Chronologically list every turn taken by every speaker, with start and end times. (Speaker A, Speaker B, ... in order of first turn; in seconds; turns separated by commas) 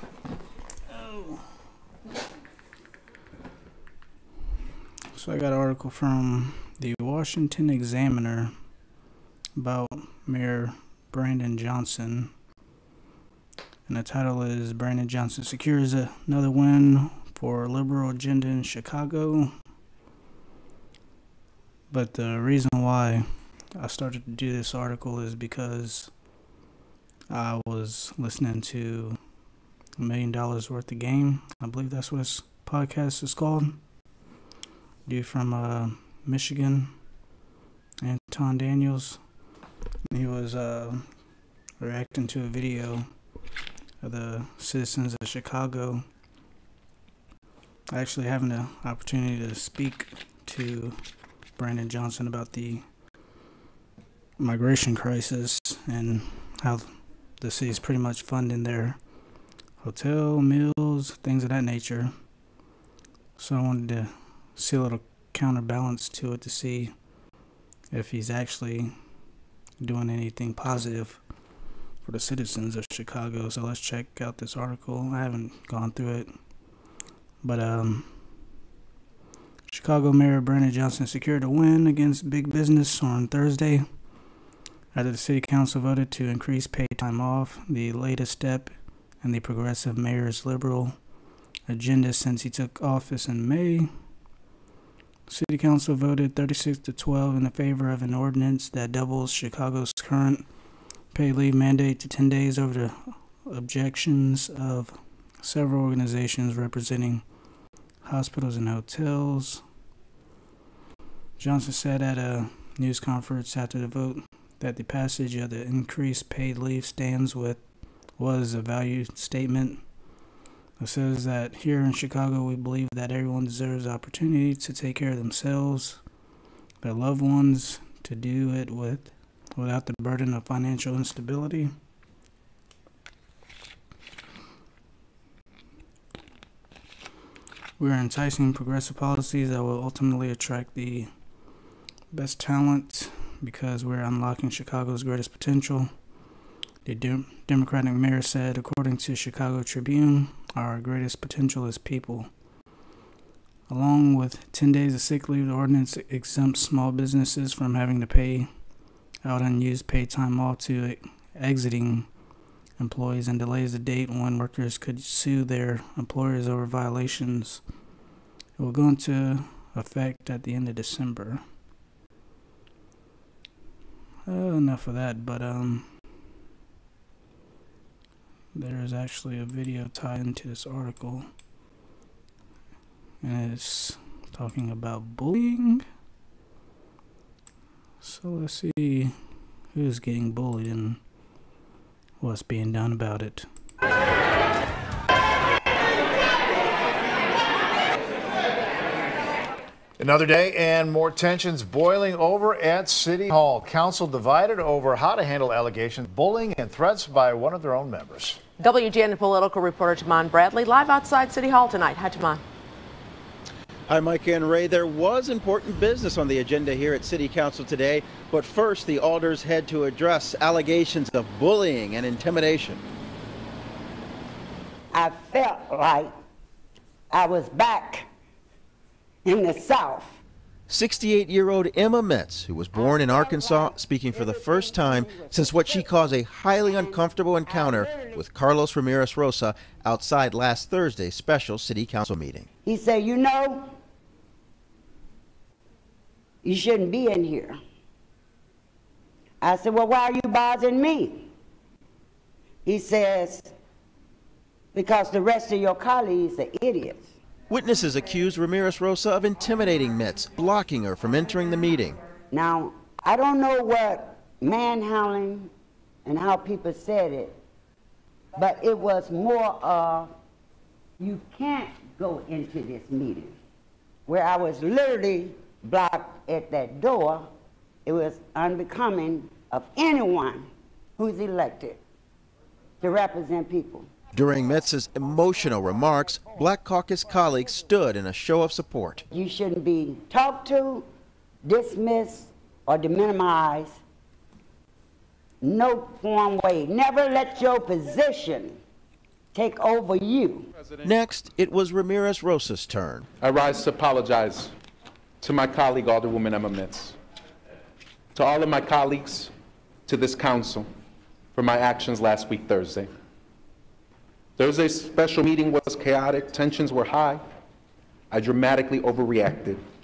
Speaker A: 0.9-1.4, Speaker A: 5.1-8.5, Speaker A: 9.6-12.3, Speaker A: 13.9-19.5, Speaker A: 21.9-26.1, Speaker A: 27.3-29.2, Speaker A: 30.0-33.8, Speaker A: 35.0-36.9, Speaker A: 38.0-39.2, Speaker A: 40.1-41.0, Speaker A: 41.8-43.1, Speaker A: 44.0-46.0, Speaker A: 47.9-51.0, Speaker A: 51.6-52.8, Speaker A: 54.4-59.0, Speaker A: 59.8-62.1, Speaker A: 63.4-66.9, Speaker A: 67.9-68.9, Speaker A: 69.8-71.2, Speaker A: 72.0-76.3, Speaker A: 77.4-78.1, Speaker A: 79.7-83.8, Speaker A: 84.9-90.9, Speaker A: 91.7-93.9, Speaker A: 95.3-100.5, Speaker A: 101.1-107.2, Speaker A: 108.0-109.6, Speaker A: 111.4-117.6, Speaker A: 118.2-119.8, Speaker A: 120.8-126.0, Speaker A: 126.8-131.7, Speaker A: 137.8-141.1, Speaker A: 142.1-145.9, Speaker A: 146.8-152.3, Speaker A: 153.7-158.5, Speaker A: 159.2-162.1, Speaker A: 162.8-167.6, Speaker A: 168.6-171.4, Speaker A: 174.3-175.9, Speaker A: 178.5-181.3, Speaker A: 183.2-185.8, Speaker A: 188.0-189.1, Speaker A: 189.7-191.0, Speaker A: 192.2-193.5, Speaker B: 200.0-208.4, Speaker C: 208.6-212.4, Speaker D: 213.9-222.8, Speaker E: 224.9-226.1, Speaker E: 227.1-228.1, Speaker E: 229.2-230.2, Speaker D: 230.7-242.5, Speaker E: 233.2-235.8, Speaker E: 242.6-243.7, Speaker E: 246.4-247.6, Speaker E: 249.4-251.3, Speaker E: 252.6-253.5, Speaker E: 254.7-257.1, Speaker D: 257.5-262.0, Speaker E: 262.3-265.5, Speaker E: 266.0-267.4, Speaker E: 268.3-270.1, Speaker E: 271.0-273.3, Speaker E: 274.1-277.3, Speaker E: 277.9-281.8, Speaker E: 282.8-283.9, Speaker D: 284.1-289.0, Speaker E: 289.1-290.9, Speaker E: 291.4-293.8, Speaker E: 295.4-298.6, Speaker E: 299.3-300.5, Speaker D: 300.8-303.1, Speaker F: 303.2-304.5, Speaker F: 305.2-307.0, Speaker F: 308.1-309.3, Speaker F: 309.9-310.7, Speaker F: 311.4-312.9, Speaker F: 314.4-317.2, Speaker F: 318.1-319.6